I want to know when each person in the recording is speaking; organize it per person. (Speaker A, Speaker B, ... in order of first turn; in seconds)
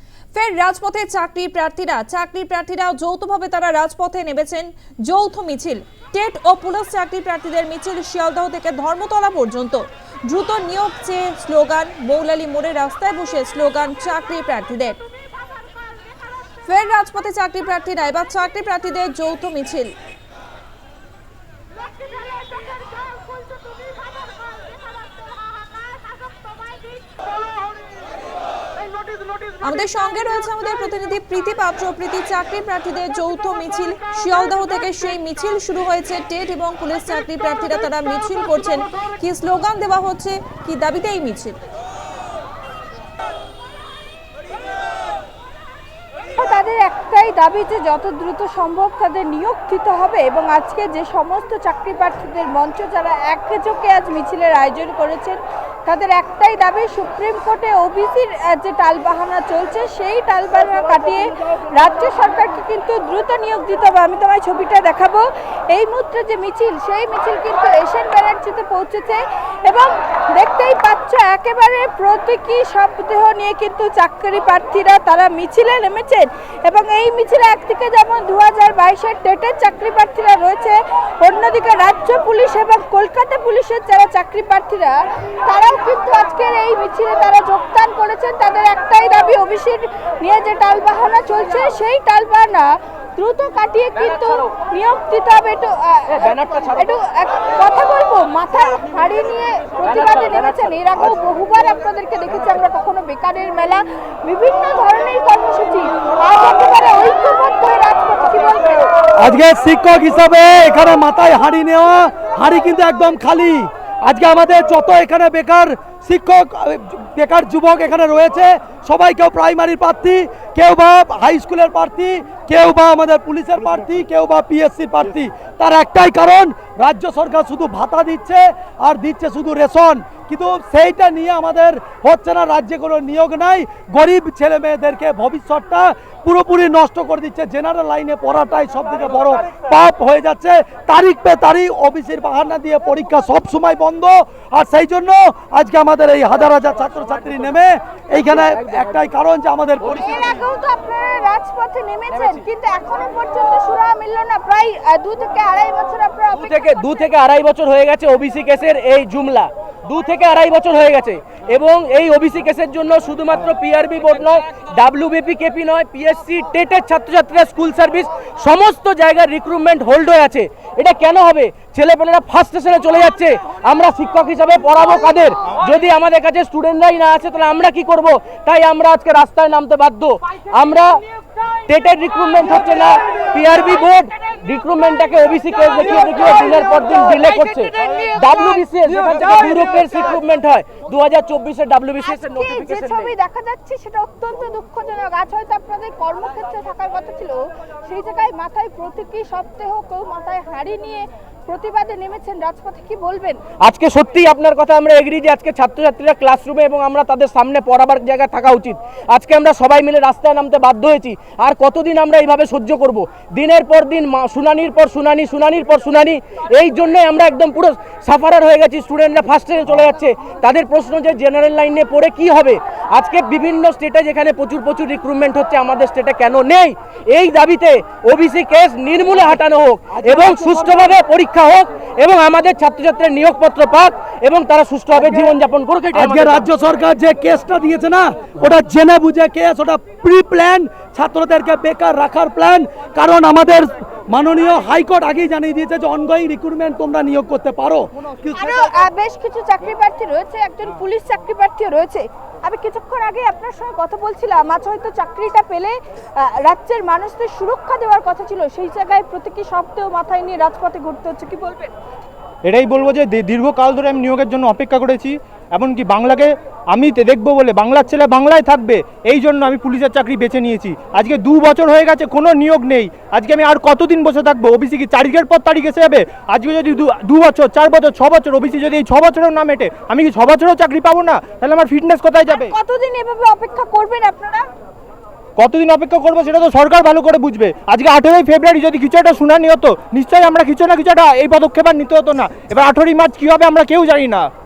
Speaker A: 0.3-15.0, 16.7-19.9, 29.6-41.6
Speaker B: 46.4-108.9, 149.9-156.8, 192.0-203.4, 248.3-261.7, 282.3-284.4
Speaker C: 94.0-94.5, 96.1-96.9, 99.8-100.7, 148.3-148.8, 156.3-181.0, 181.7-193.1, 203.6-236.5
Speaker D: 109.2-150.4, 235.9-248.6
Speaker E: 262.4-282.6, 285.4-294.2